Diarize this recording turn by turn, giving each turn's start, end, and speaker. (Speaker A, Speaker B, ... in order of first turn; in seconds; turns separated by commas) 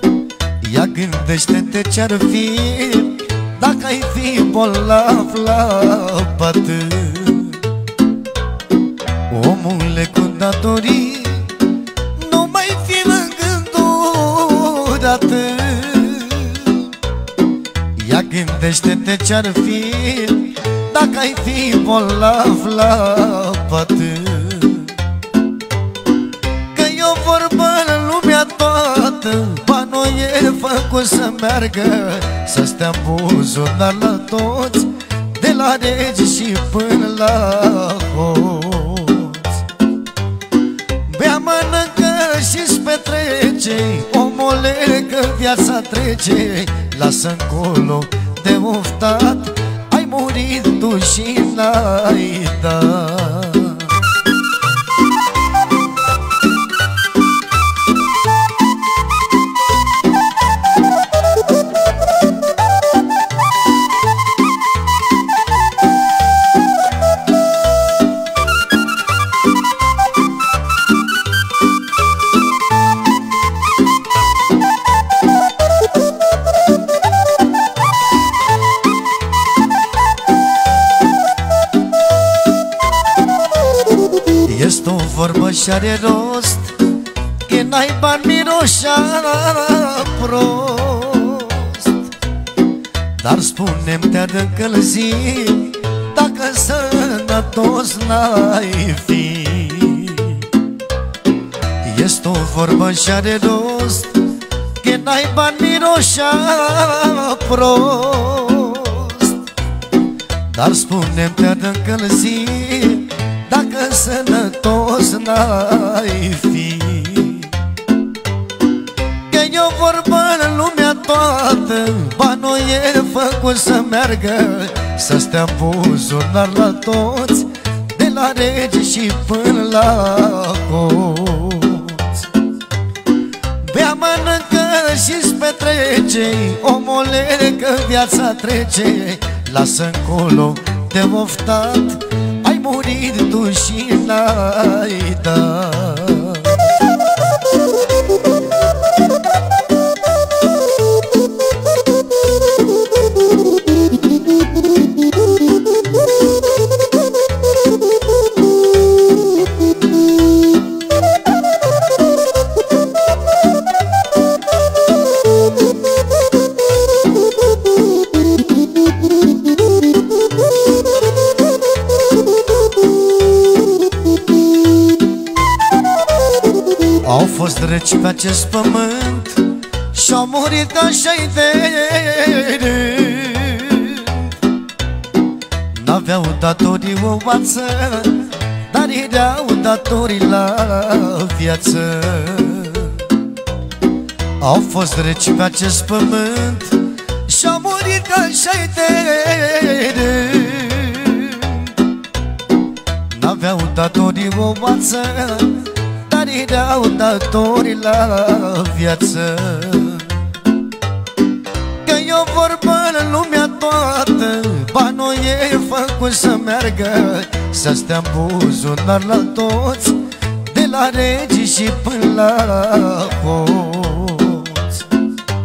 Speaker A: 0.6-7.7, Speaker A: 9.3-11.6, Speaker A: 12.2-16.9, Speaker A: 18.0-25.0, Speaker A: 26.7-39.6, Speaker A: 41.1-54.0, Speaker A: 84.4-86.8, Speaker A: 87.4-92.1, Speaker A: 93.2-100.5, Speaker A: 101.8-104.1, Speaker A: 104.8-109.4, Speaker A: 110.5-117.6, Speaker A: 119.3-132.2, Speaker A: 133.6-146.7, Speaker A: 177.0-184.3, Speaker A: 185.7-193.1, Speaker A: 194.4-201.8, Speaker A: 203.1-210.2, Speaker A: 211.8-224.8